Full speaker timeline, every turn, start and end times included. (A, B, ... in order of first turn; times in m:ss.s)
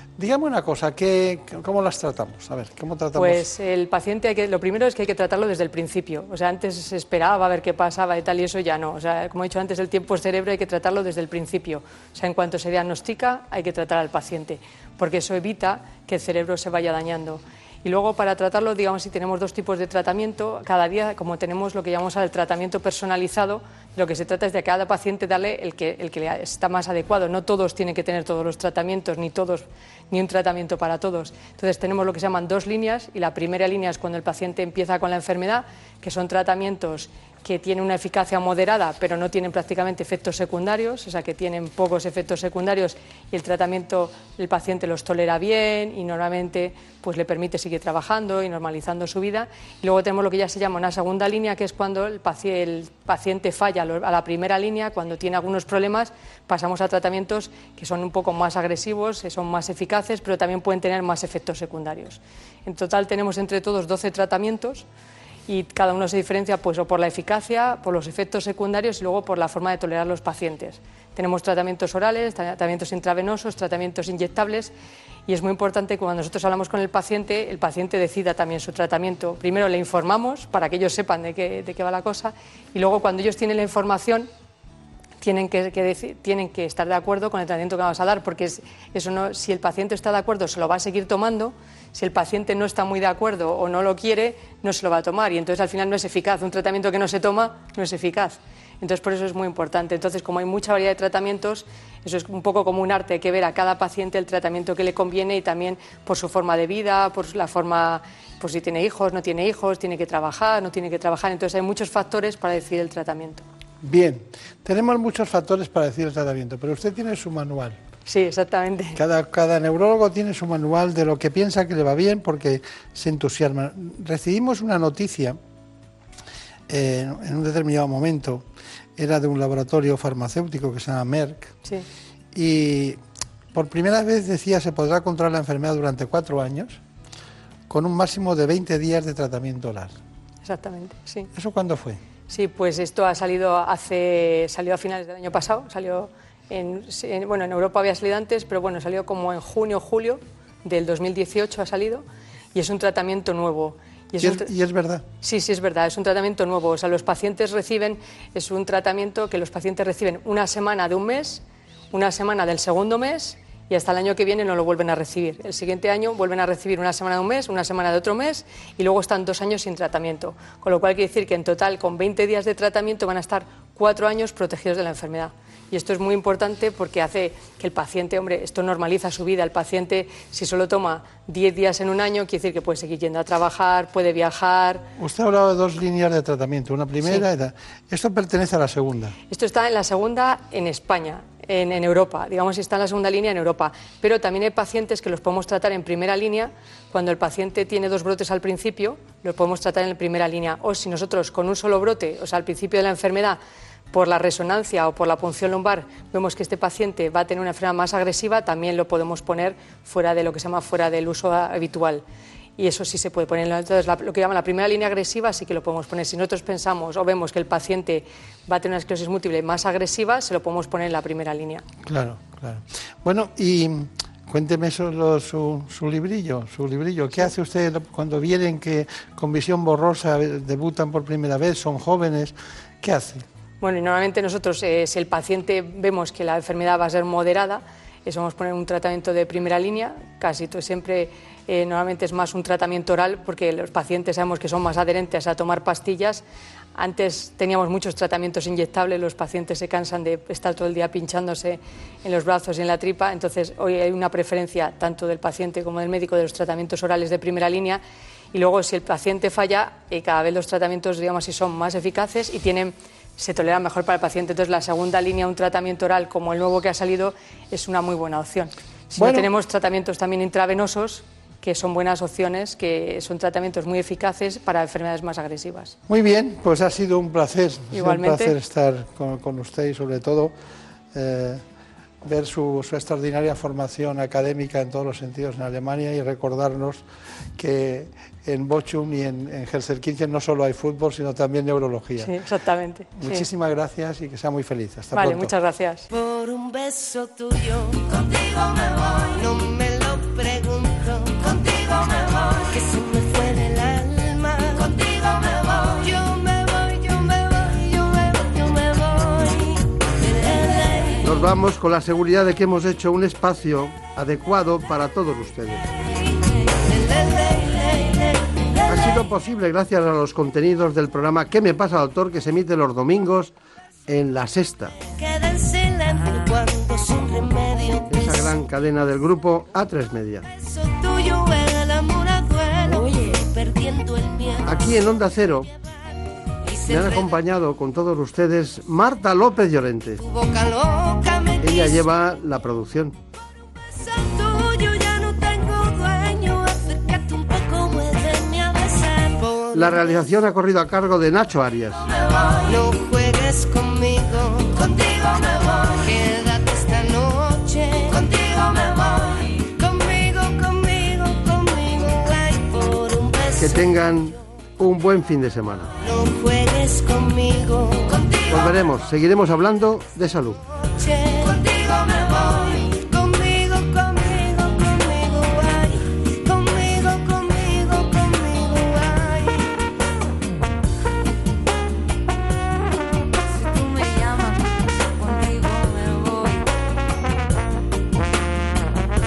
0:00.2-0:03.4 A
0:03.1-1:04.8 B
1:05.5-1:14.7 B
1:15.3-1:24.3 B
1:25.2-1:53.4 B
1:53.8-1:57.8 A
1:58.0-1:59.0 B
1:59.0-2:05.4 A
2:06.7-2:08.4 A
2:09.0-2:11.5 A
2:12.3-2:13.0 A
2:13.5-2:16.8 A
2:17.7-2:20.0 A
2:20.4-2:21.3 B
2:21.3-2:22.0 A
2:22.3-2:34.5 B
2:34.2-2:35.0 A
2:35.2-3:04.8 B
3:05.0-3:09.1 A
3:07.0-3:07.2 B
3:09.3-3:23.4 B
3:23.9-3:32.0 B
3:32.6-3:41.6 B
3:41.8-3:53.2 A
3:53.6-4:06.2 B
4:06.7-4:17.8 B
4:18.3-4:35.8 B
4:29.0-4:29.3 A
4:35.9-4:40.3 A
4:37.7-4:38.3 B
4:40.9-4:41.4 A
4:42.0-4:46.8 A
4:47.4-4:52.1 A
4:52.0-4:53.3 B
4:53.0-4:55.3 A
4:54.9-4:55.8 B
4:55.9-5:11.0 C
5:11.0-5:15.8 D
5:16.6-5:18.4 C
5:18.6-5:23.3 D
5:23.9-5:24.8 D
5:24.9-5:28.2 C
5:27.9-5:30.3 D
5:30.4-5:34.8 C
5:34.4-5:35.5 D
5:36.4-5:37.1 C
5:36.7-5:40.0 D
5:40.0-5:41.8 C
5:41.4-5:43.0 D
5:43.8-5:49.9 C
5:49.5-5:51.9 D
5:52.2-6:03.6 C
6:03.4-6:05.7 D
6:05.8-6:08.5 C
6:08.3-6:10.4 D
6:10.7-6:19.5 C
6:23.4-6:24.4 C
6:25.0-6:26.4 C